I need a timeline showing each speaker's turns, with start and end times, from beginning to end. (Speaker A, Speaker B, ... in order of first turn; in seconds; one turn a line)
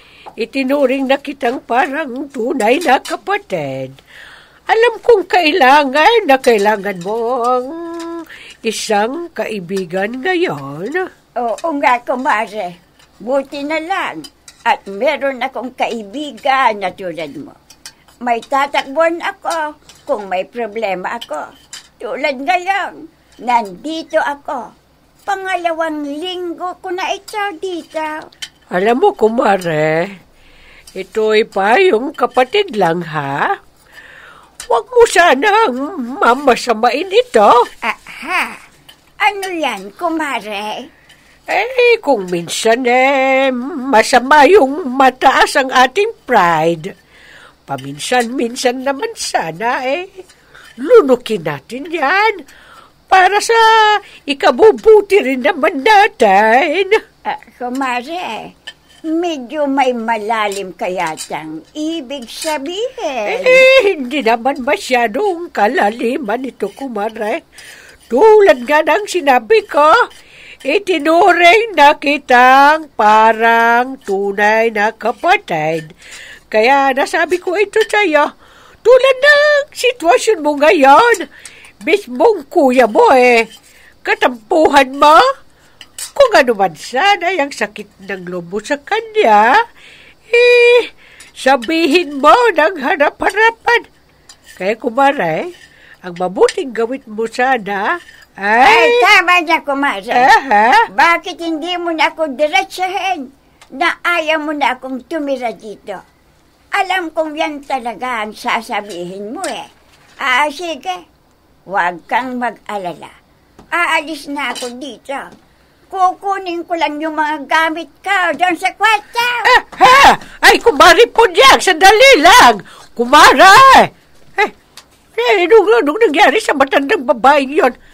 Speaker A: 0.4-4.0
Speaker A: 4.7-11.1
Speaker B: 11.4-17.6
Speaker B: 18.2-21.4
Speaker B: 22.0-24.7
Speaker B: 25.3-28.3
Speaker A: 28.7-30.1
Speaker A: 31.0-33.5
Speaker A: 34.7-37.5
Speaker B: 37.8-38.6
Speaker B: 39.2-40.9
Speaker A: 41.5-46.9
Speaker A: 47.7-50.2
Speaker A: 50.8-52.4
Speaker A: 53.1-57.0
Speaker B: 57.2-58.5
Speaker B: 59.1-63.7
Speaker A: 63.3-67.4
Speaker A: 68.1-70.0
Speaker A: 70.7-75.9
Speaker A: 76.5-78.3
Speaker A: 78.8-81.3
Speaker A: 81.8-83.5
Speaker A: 84.0-85.2
Speaker A: 86.2-89.6
Speaker A: 90.3-93.8
Speaker A: 94.6-95.5
Speaker A: 96.0-99.1
Speaker B: 98.7-100.3
Speaker A: 100.1-100.9
Speaker B: 100.9-106.0
Speaker B: 106.7-109.7
Speaker B: 110.2-111.0
Speaker B: 111.7-113.1
Speaker B: 113.7-115.3
Speaker B: 115.9-119.4
Speaker A: 119.5-124.5
Speaker A: 125.2-127.7